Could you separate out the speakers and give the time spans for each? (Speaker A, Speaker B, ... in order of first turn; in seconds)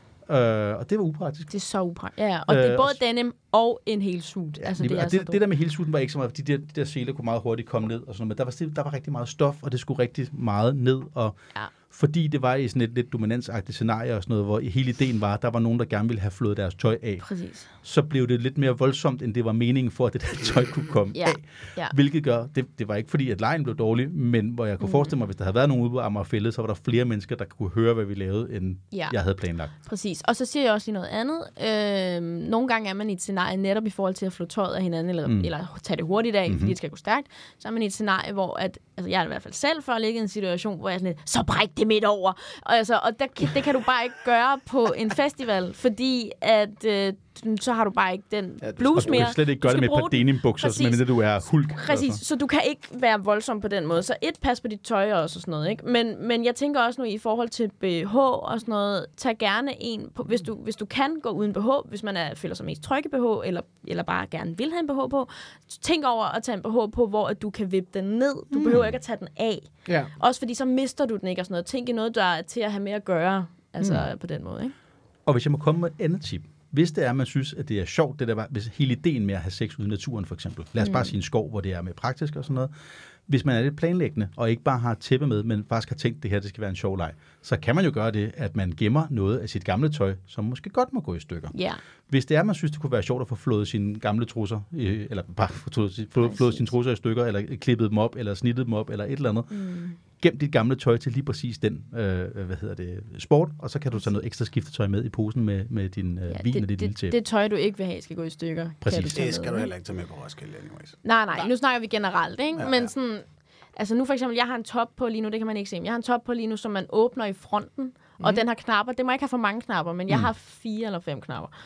Speaker A: 0.2-1.5, 2.5-3.0, 4.6-11.4, 11.9-29.7, 36.5-36.7, 48.9-52.2, 68.5-68.9, 75.2-82.7, 83.3-91.5, 92.1-99.5, 100.2-107.1, 108.8-109.2
Speaker B: 1.5-5.4, 17.2-17.7, 21.1-21.9, 24.8-25.1, 29.8-74.7, 80.8-81.1, 91.5-91.8, 96.2-96.7, 99.5-100.0, 106.3-109.7, 111.0-121.5
Speaker C: 48.6-49.2, 109.1-111.0, 112.5-112.9